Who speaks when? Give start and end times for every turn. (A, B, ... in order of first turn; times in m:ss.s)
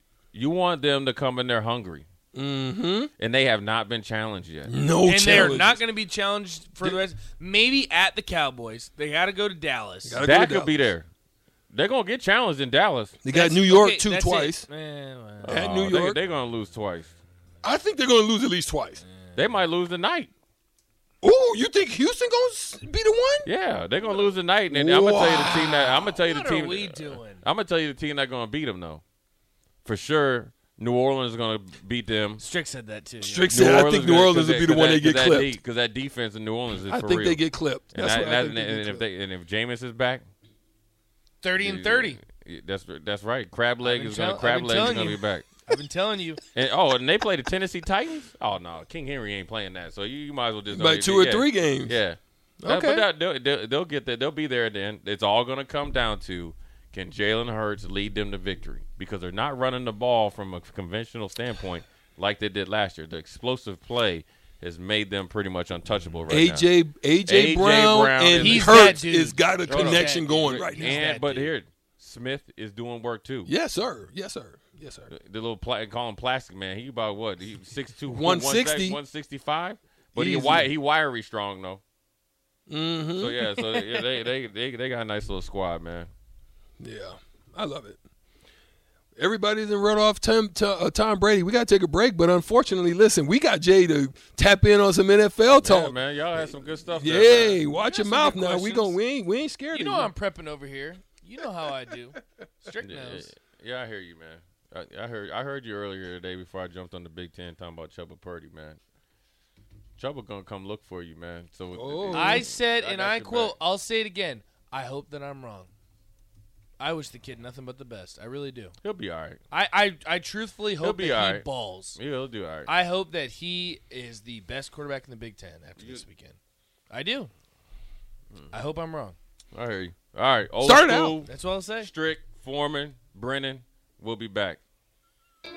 0:00.3-0:02.1 A
0:02.3-0:03.1 B
0:03.2-0:04.7 A
0:04.7-0:05.8 B
0:05.1-0:10.2 C
0:10.0-0:10.9 B
0:10.2-0:11.1 A
0:11.7-0:13.2 A
0:13.2-0:14.7 B
0:13.3-0:15.6 C
0:15.4-0:17.1 A
0:15.4-0:16.2 B
0:17.6-0:19.0 B
0:19.4-0:20.3 A
0:21.2-0:23.5 B
0:23.4-0:29.0 A
0:24.7-0:25.9 B
0:25.9-0:27.4 C
0:29.8-0:32.4 A
0:32.4-0:33.7 C
0:33.2-0:35.6 B
0:33.5-0:37.4 A
0:36.8-0:39.0 B
0:37.9-0:40.3 A
0:41.4-0:42.2 C
0:41.6-0:45.5 A
0:43.8-0:46.4 C
0:46.5-1:06.7 A
0:50.7-0:52.0 B
0:52.6-0:53.1 B
1:06.3-1:11.1 B
1:07.3-1:09.0 A
1:08.3-1:11.5 C
1:09.7-1:13.5 A
1:13.5-1:15.1 B
1:15.1-1:21.8 A
1:18.1-1:19.0 B
1:20.2-1:20.7 B
1:22.7-1:24.0 B
1:23.2-1:26.1 A
1:26.8-1:28.0 B
1:29.2-1:40.1 B
1:35.6-1:37.7 A
1:37.7-1:39.0 C
1:39.7-1:43.3 C
1:42.8-1:48.8 A
1:50.0-1:53.6 A
1:51.8-1:52.5 B
1:52.1-1:55.7 C
1:56.8-1:58.8 C
1:58.8-1:59.4 A
1:59.5-2:02.0 C
2:00.8-2:02.7 A
2:02.7-2:06.4 C
2:06.9-2:07.3 C
2:08.5-2:09.2 C
2:09.5-2:14.6 A
2:10.6-2:11.2 B
2:11.2-2:11.9 C